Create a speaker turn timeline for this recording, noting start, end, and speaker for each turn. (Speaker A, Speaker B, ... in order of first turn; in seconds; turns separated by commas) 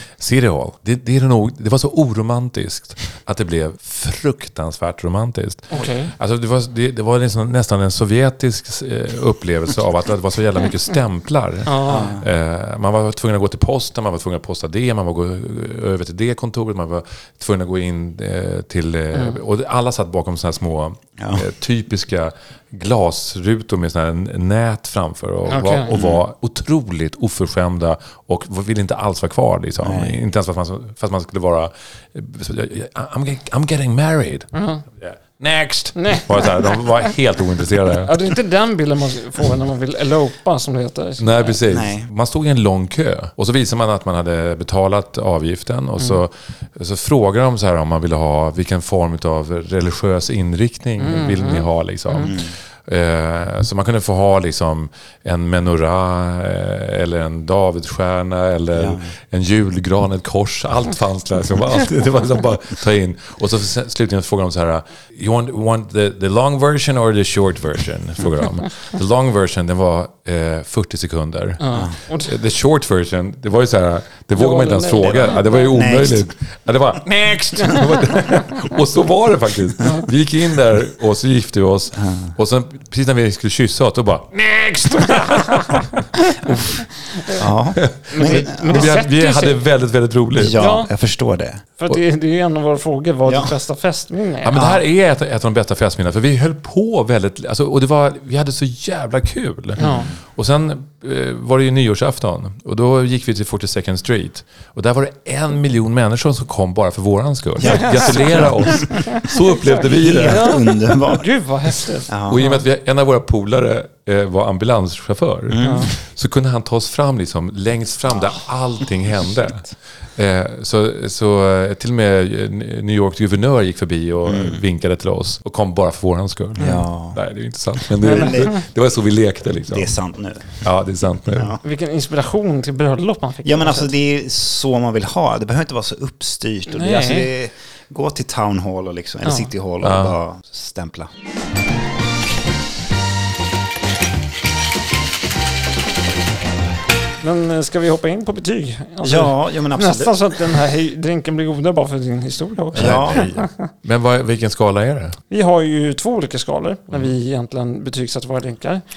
Speaker A: 0.2-38.1, Speaker B: 5.7-6.1, Speaker B: 11.7-12.2, Speaker C: 11.8-12.3, Speaker B: 19.1-19.4, Speaker C: 21.2-21.4, Speaker B: 25.5-25.9, Speaker C: 25.9-26.2, Speaker C: 29.8-30.2, Speaker B: 34.5-34.8, Speaker B: 36.0-37.1, Speaker B: 38.0-41.6, Speaker A: 41.2-71.7, Speaker C: 41.7-42.1, Speaker B: 51.0-52.3, Speaker C: 52.2-52.5, Speaker C: 58.7-59.0, Speaker B: 71.6-72.4, Speaker A: 72.2-86.8, Speaker B: 74.3-75.7, Speaker C: 75.0-76.3, Speaker B: 77.6-78.5, Speaker B: 79.8-80.0, Speaker C: 82.0-82.3, Speaker B: 84.9-86.3, Speaker B: 87.1-87.5, Speaker C: 87.3-89.0, Speaker A: 87.7-90.6, Speaker B: 88.1-89.6, Speaker C: 90.3-91.6, Speaker B: 90.5-90.9, Speaker B: 91.8-94.6, Speaker C: 93.2-93.5, Speaker A: 94.4-110.6, Speaker C: 94.5-94.8, Speaker C: 99.8-100.1, Speaker B: 99.8-100.1, Speaker C: 107.6-109.2, Speaker B: 107.6-112.6, Speaker C: 109.8-111.3, Speaker C: 112.1-112.4, Speaker A: 112.2-129.9, Speaker C: 115.5-115.9, Speaker B: 115.6-115.9, Speaker C: 124.3-124.6, Speaker C: 126.6-127.2, Speaker C: 128.0-128.6, Speaker B: 128.2-128.4, Speaker C: 129.7-130.7, Speaker A: 130.6-131.6, Speaker C: 131.3-131.6, Speaker B: 131.6-133.9, Speaker C: 133.4-141.1, Speaker B: 136.7-137.3, Speaker A: 139.8-140.2, Speaker B: 147.2-153.5, Speaker C: 149.0-150.6, Speaker A: 152.7-155.2, Speaker C: 152.7-153.3, Speaker B: 155.3-158.8